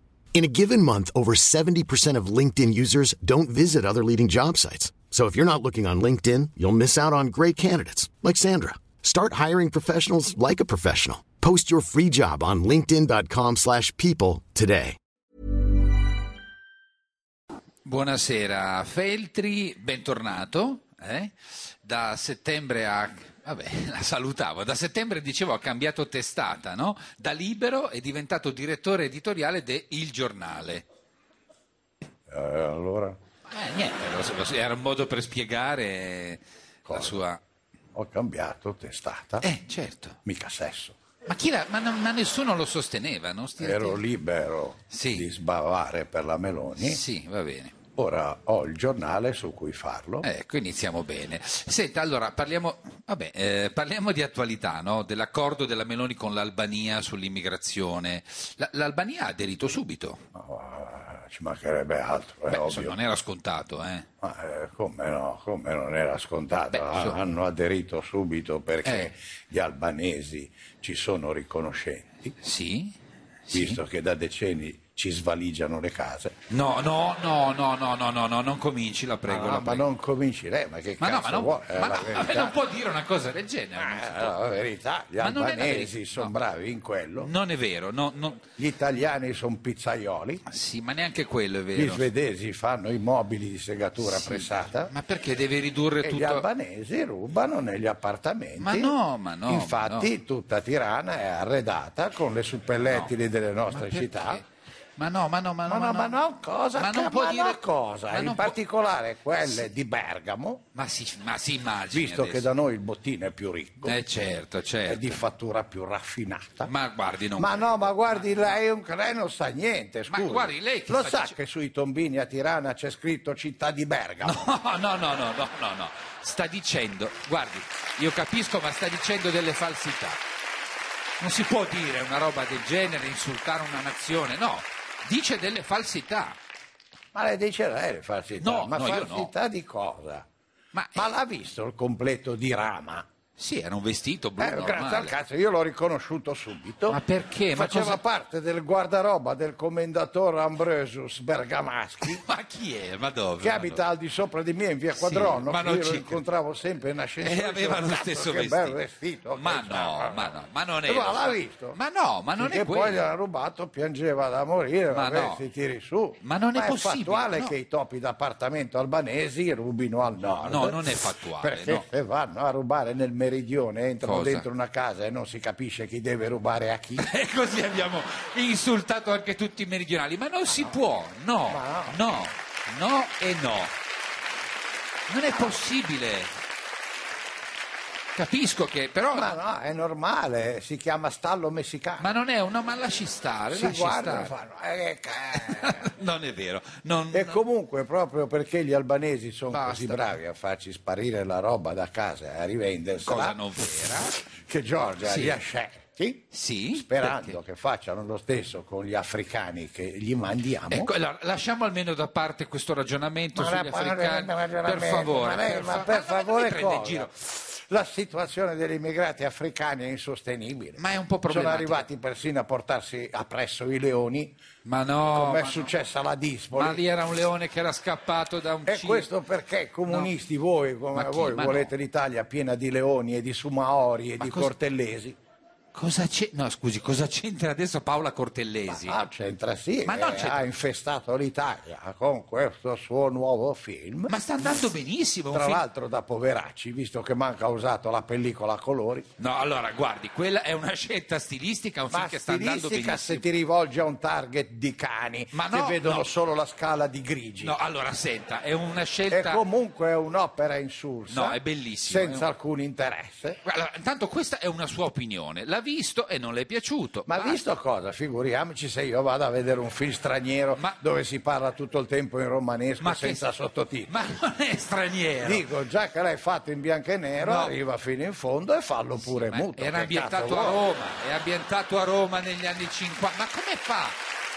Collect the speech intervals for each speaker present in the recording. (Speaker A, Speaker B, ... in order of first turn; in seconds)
Speaker A: 0.3-15.0
Speaker B: 17.8-30.9, 33.5-37.4, 39.4-40.2, 41.3-44.0, 44.9-45.3, 46.8-47.8, 50.2-60.2, 62.5-64.0, 66.7-67.2, 68.8-69.1, 72.4-72.9, 73.5-73.8, 76.5-79.8, 81.0-84.4, 85.2-86.4, 87.2-88.4, 90.5-92.1, 94.0-96.5, 98.6-100.1, 103.7-104.4, 105.0-106.2, 106.8-108.5, 109.4-109.7, 110.7-112.5, 113.8-115.2, 116.6-118.5, 120.1-121.3, 124.2-130.2, 131.2-136.4, 138.4-139.3, 140.7-141.1, 143.4-145.2, 146.9-148.0, 152.0-153.8, 154.9-156.2, 157.2-158.8, 159.3-163.0, 164.9-165.4, 166.2-167.5, 170.4-171.8, 174.0-174.4, 177.0-183.7, 185.1-186.3, 188.1-189.3, 192.0-194.3, 195.3-197.4, 199.5-200.1, 203.0-204.2, 205.0-205.4, 206.3-207.4, 210.7-217.1, 220.8-221.8, 224.6-225.7, 226.5-229.1, 229.9-230.1, 230.9-231.7, 234.2-234.5, 235.7-239.0, 239.8-240.4, 244.1-245.6, 249.2-253.2, 255.3-256.1, 257.4-259.4, 261.1-262.3, 263.4-267.4, 272.8-273.3, 273.9-275.5, 277.2-277.6, 278.9-284.0
Speaker C: 32.3-33.2, 36.9-37.2, 37.9-39.5, 40.2-41.0, 43.6-47.0, 47.9-50.2, 60.3-63.0, 64.2-72.3, 73.5-76.3, 79.3-82.5, 83.8-87.3, 88.6-90.4, 91.7-94.9, 96.0-98.9, 99.5-104.4, 105.6-110.6, 111.9-114.0, 114.8-116.7, 117.4-124.5, 137.1-140.2, 140.9-143.1, 144.4-147.0, 147.5-152.2, 153.4-160.3, 160.8-161.8, 162.3-177.1, 181.5-182.0, 189.1-192.1, 193.5-195.9, 197.1-203.4, 204.3-210.9, 213.3-224.4, 225.1-226.8, 228.7-235.2, 238.7-244.3, 245.3-249.1, 251.9-257.6, 259.1-263.4, 267.1-273.9, 275.2-280.6